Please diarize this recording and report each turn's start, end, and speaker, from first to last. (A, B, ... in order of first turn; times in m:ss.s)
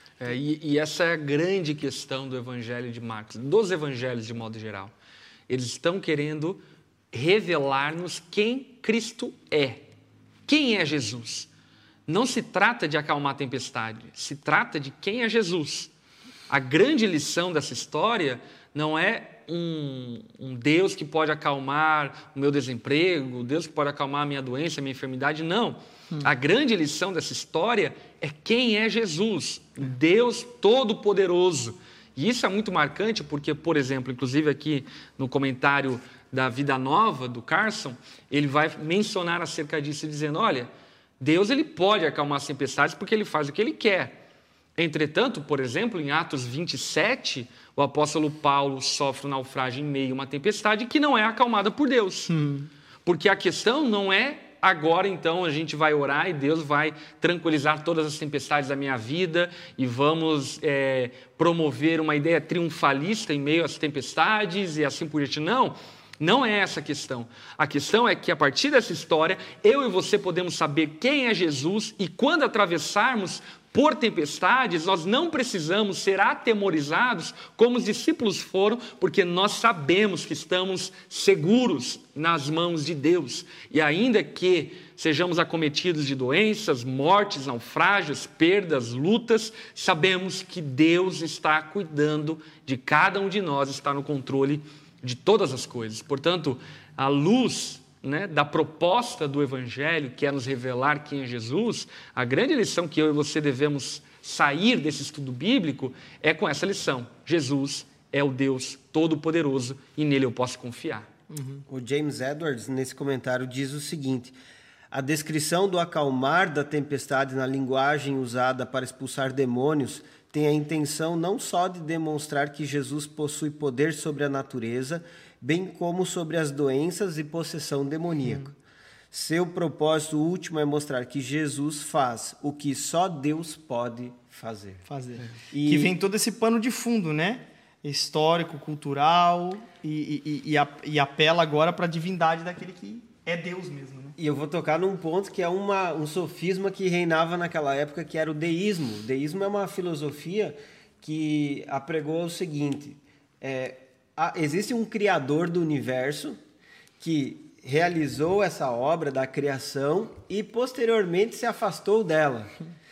0:00.2-0:04.9 A
0:05.5-0:06.6 A
0:07.1-0:09.8 A
0:10.5-0:11.5 A
0:12.1-0:15.9 A
0:16.5-0:44.1 A
0:44.8-0:52.4 A
0:52.3-0:52.7 B
0:53.0-1:51.1 A
1:51.3-1:51.6 B
1:51.7-1:54.3 C
1:54.9-2:08.5 C
2:09.1-2:14.8 C
2:14.9-2:24.2 B
2:15.5-2:15.9 C
2:24.2-2:36.4 C
2:37.0-2:42.5 C